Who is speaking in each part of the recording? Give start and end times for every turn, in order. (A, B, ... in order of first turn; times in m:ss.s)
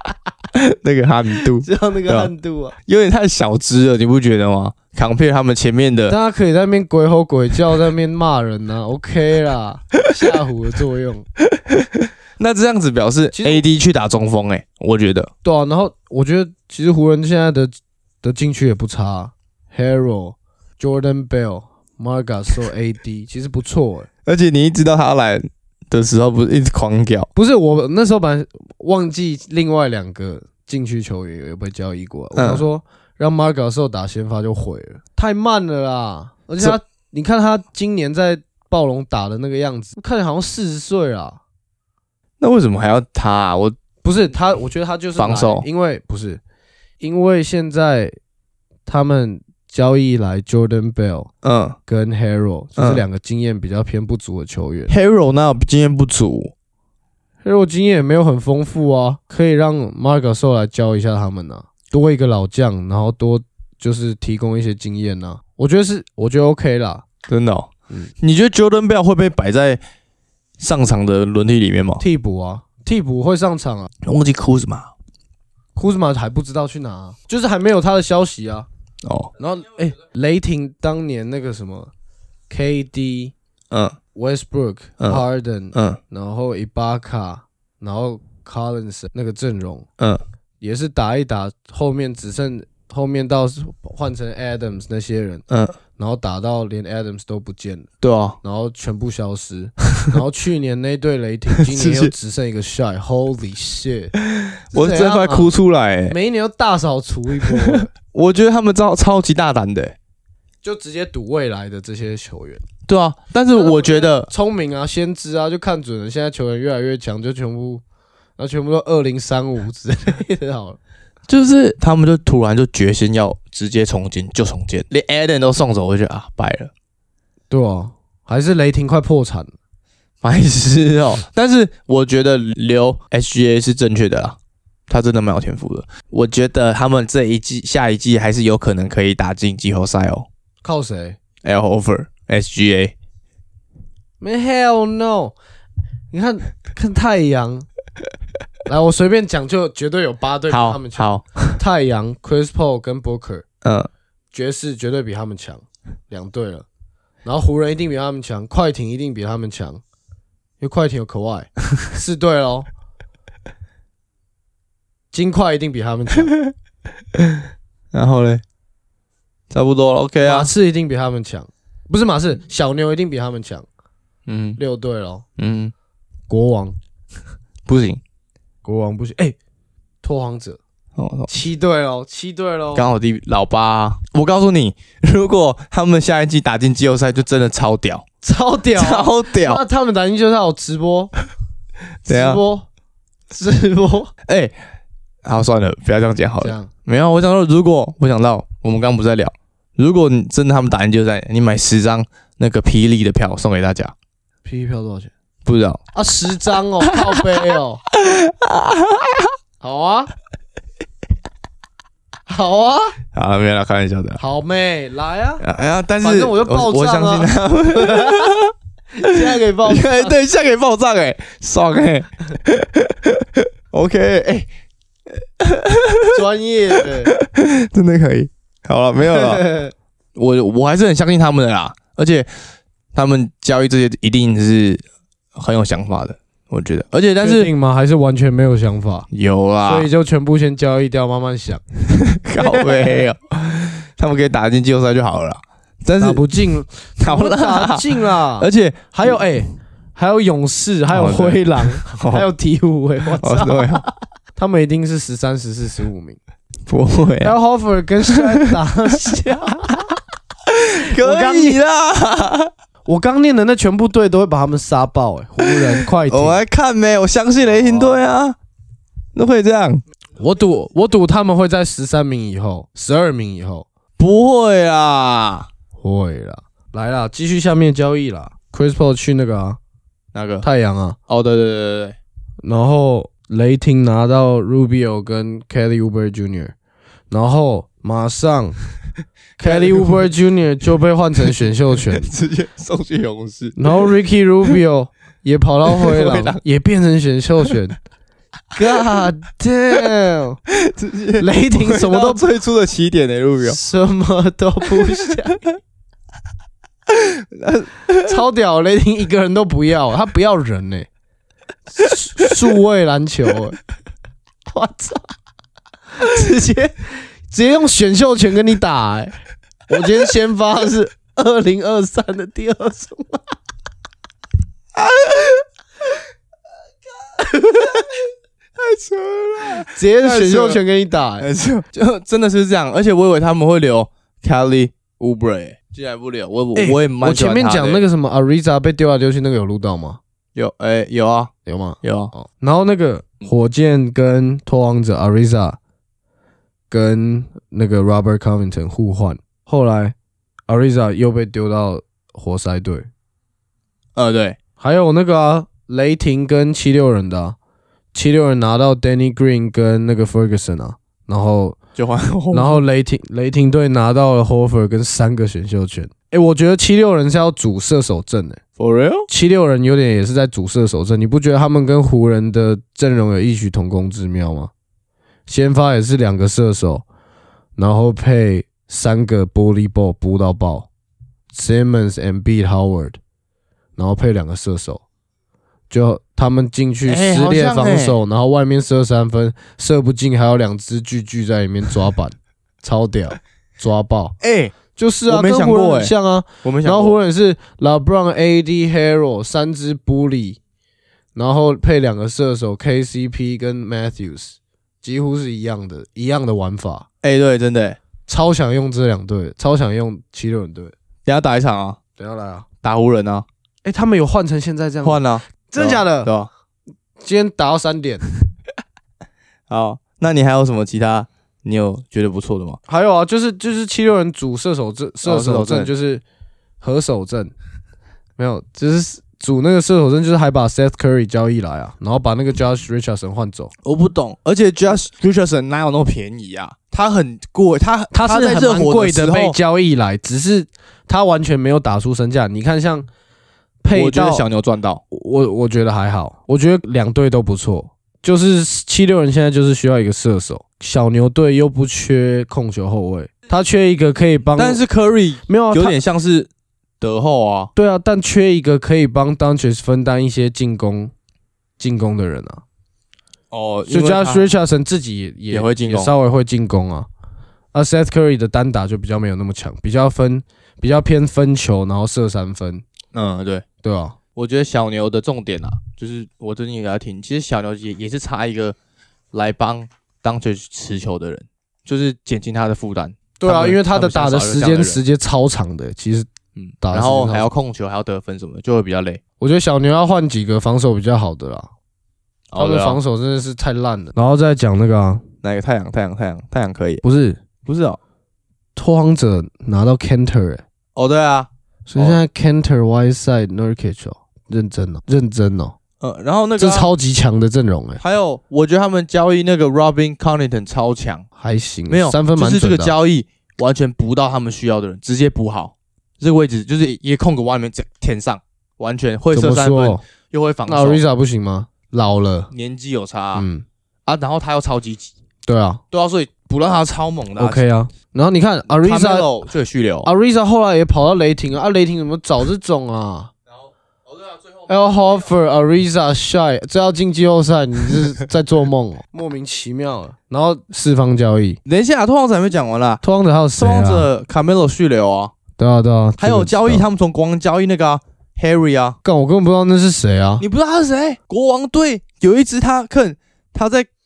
0:00.5-0:02.3 A
0:01.4-0:02.8 B
0:02.8-0:06.2 A
0:06.1-0:11.3 B
0:11.5-0:15.3 A
0:13.3-0:13.6 B
0:15.4-0:24.1 B
0:24.2-0:27.3 A
0:27.3-0:41.4 B
0:32.4-0:32.6 A
0:42.4-0:43.7 A
0:44.0-0:46.4 B
0:45.2-0:45.6 A
0:47.0-0:48.1 B
0:48.8-0:51.3 B
0:51.4-0:51.8 A
0:51.9-0:54.9 B
0:52.8-0:53.0 A
0:54.9-0:56.5 A
0:57.4-1:07.0 B
1:07.3-1:09.8 A
1:10.6-1:12.0 A
1:12.0-1:13.9 B
1:14.0-1:14.9 A
1:15.8-1:18.7 B
1:19.0-1:19.3 A
1:19.4-1:21.9 B
1:22.5-1:23.3 B
1:23.7-1:24.0 A
1:24.1-1:29.9 B
1:25.7-1:26.0 A
1:30.6-1:35.4 B
1:35.5-1:35.8 A
1:36.0-1:37.9 B
1:38.0-1:38.4 A
1:38.4-1:44.1 B
1:41.6-1:42.1 A
1:44.2-1:46.2 A
1:44.7-1:45.5 B
1:46.1-1:47.9 B
1:47.5-1:50.0 A
1:50.6-1:52.6 B
1:52.8-1:54.3 A
1:53.5-1:57.8 B
1:58.4-2:00.8 B
2:01.3-2:06.7 A
2:07.5-2:09.5 B
2:10.2-2:14.4 A
2:14.9-2:20.3 A
2:20.6-2:21.2 B
2:21.4-2:22.9 A
2:24.2-2:25.3 B
2:26.1-2:27.7 B
2:28.7-2:33.4 B
2:30.5-2:31.6 A
2:33.6-2:33.9 A
2:34.3-2:36.6 B
2:37.2-2:39.8 B
2:40.6-2:42.7 B
2:45.1-2:46.3 B
2:47.9-2:48.4 A
2:49.5-2:50.5 A
2:50.2-2:53.6 B
2:54.3-2:54.6 A
2:54.6-2:55.2 B
2:55.4-2:55.7 A
2:56.3-2:56.8 B
2:57.6-2:58.0 A
2:58.6-2:59.4 B
3:00.0-3:00.6 B
3:01.0-3:01.3 A
3:01.3-3:02.8 B
3:02.7-3:08.0 A
3:08.2-3:11.1 B
3:08.8-3:09.6 A
3:12.0-3:12.4 A
3:12.0-3:12.7 B
3:13.3-3:14.1 B
3:14.3-3:14.5 A
3:15.2-3:23.9 A
3:16.4-3:16.7 B
3:24.4-3:25.1 B
3:25.4-3:25.8 A
3:25.9-3:27.8 B
3:27.9-3:29.3 A
3:29.6-3:30.1 B
3:32.3-3:33.0 B
3:33.1-3:34.2 A
3:34.2-3:35.4 B
3:35.4-3:38.5 A
3:36.0-3:38.4 B
3:38.9-3:40.1 B
3:39.0-3:44.5 A
3:45.4-3:46.1 A
3:46.1-3:47.1 B
3:46.8-3:49.4 A
3:49.0-3:49.7 B
3:50.2-3:52.3 A
3:52.9-3:54.8 A
3:55.3-3:57.5 A
3:57.2-3:59.1 B
3:59.1-3:59.9 A
3:59.6-4:01.6 B
4:01.9-4:06.4 A
4:02.4-4:03.0 B
4:06.0-4:16.2 B
4:07.0-4:09.2 A
4:10.9-4:12.2 A
4:13.1-4:13.8 A
4:16.7-4:17.4 A
4:17.2-4:19.9 B
4:18.0-4:18.6 A
4:20.5-4:22.5 A
4:20.9-4:21.6 B
4:22.8-4:26.4 B
4:25.4-4:28.4 A
4:27.5-4:28.0 B
4:29.1-4:29.8 A
4:30.2-4:33.7 B
4:34.0-4:35.5 A
4:35.8-4:39.6 B
4:40.1-4:40.4 A
4:40.4-4:41.0 B
4:41.1-4:42.0 A
4:42.4-4:46.5 B
4:47.1-4:48.6 B
4:49.4-4:52.1 B
4:49.4-4:50.0 A
4:51.8-4:53.9 A
4:53.6-4:57.8 B
4:55.7-4:56.4 A
4:58.5-5:00.4 B
4:58.7-4:59.0 A
5:00.5-5:03.6 A
5:01.2-5:02.2 B
5:03.4-5:05.4 B
5:06.9-5:08.2 A
5:08.0-5:10.9 B
5:11.7-5:13.6 B
5:14.5-5:15.1 B
5:15.9-5:19.2 B
5:19.7-5:23.2 B
5:24.8-5:25.4 A
5:27.2-5:27.8 B
5:28.6-5:30.6 A
5:29.6-5:31.3 B
5:31.2-5:37.8 A
5:36.5-5:40.0 B
5:40.3-5:41.3 A
5:41.4-5:45.6 B
5:41.8-5:42.1 A
5:46.7-5:49.9 B
5:50.5-5:52.9 B
5:54.0-5:54.4 A
5:54.6-5:57.4 B
5:57.9-6:01.6 B
6:01.8-6:02.6 A
6:02.3-6:08.4 B
6:08.6-6:09.1 A
6:09.1-6:14.5 B
6:15.3-6:16.8 B
6:17.6-6:20.7 B
6:21.3-6:23.0 B
6:23.8-6:24.8 B
6:25.7-6:34.1 B
6:26.8-6:28.0 A
6:34.2-6:34.5 A
6:34.7-6:40.4 B
6:35.1-6:35.9 A
6:36.4-6:37.0 A
6:41.1-6:46.9 B
6:47.0-6:47.8 A
6:48.1-6:50.7 B
6:51.0-6:51.8 A
6:52.0-6:52.4 B
6:52.6-6:53.2 A
6:53.6-6:56.1 B
6:54.8-6:56.3 A
6:57.0-6:58.0 B
6:59.5-7:02.6 A
7:02.7-7:06.0 B
7:05.0-7:05.7 A
7:06.6-7:07.3 B
7:08.2-7:13.5 B
7:13.6-7:19.4 A
7:17.9-7:22.9 B
7:23.6-7:24.2 B
7:23.7-7:24.8 A
7:24.9-7:34.6 B
7:34.4-7:37.5 A
7:35.3-7:35.8 B
7:37.6-7:40.9 B
7:41.6-7:42.4 B
7:43.3-7:44.3 A
7:43.7-7:46.9 B
7:45.3-7:45.9 A
7:47.5-7:52.6 B
7:52.9-7:53.4 A
7:53.6-7:54.0 B
7:54.1-7:58.6 A
7:59.1-8:04.8 A
8:03.2-8:06.1 B
8:06.4-8:09.0 A
8:06.6-8:07.3 B
8:09.2-8:11.5 B
8:12.3-8:12.8 A
8:12.4-8:15.0 B
8:15.2-8:16.8 A
8:16.8-8:17.2 B
8:17.4-8:17.8 A
8:18.6-8:20.4 B
8:20.7-8:22.0 A
8:21.7-8:25.6 B
8:25.8-8:26.7 A
8:26.4-8:27.8 B
8:27.8-8:31.0 A
8:31.2-8:32.7 B
8:31.7-8:40.8 A
8:39.1-8:39.8 B
8:40.4-8:42.3 B
8:42.3-8:43.2 A
8:43.1-8:43.4 B
8:43.8-8:44.9 A
8:45.2-8:45.6 B
8:45.7-8:47.4 A
8:47.2-8:49.1 B
8:48.5-8:49.9 A
8:49.8-8:53.1 B
8:54.5-9:01.4 B
9:01.4-9:02.8 A
9:02.8-9:03.9 B
9:03.4-9:05.1 A
9:05.4-9:06.6 B
9:06.0-9:08.8 A
9:08.8-9:10.2 B
9:10.2-9:13.7 A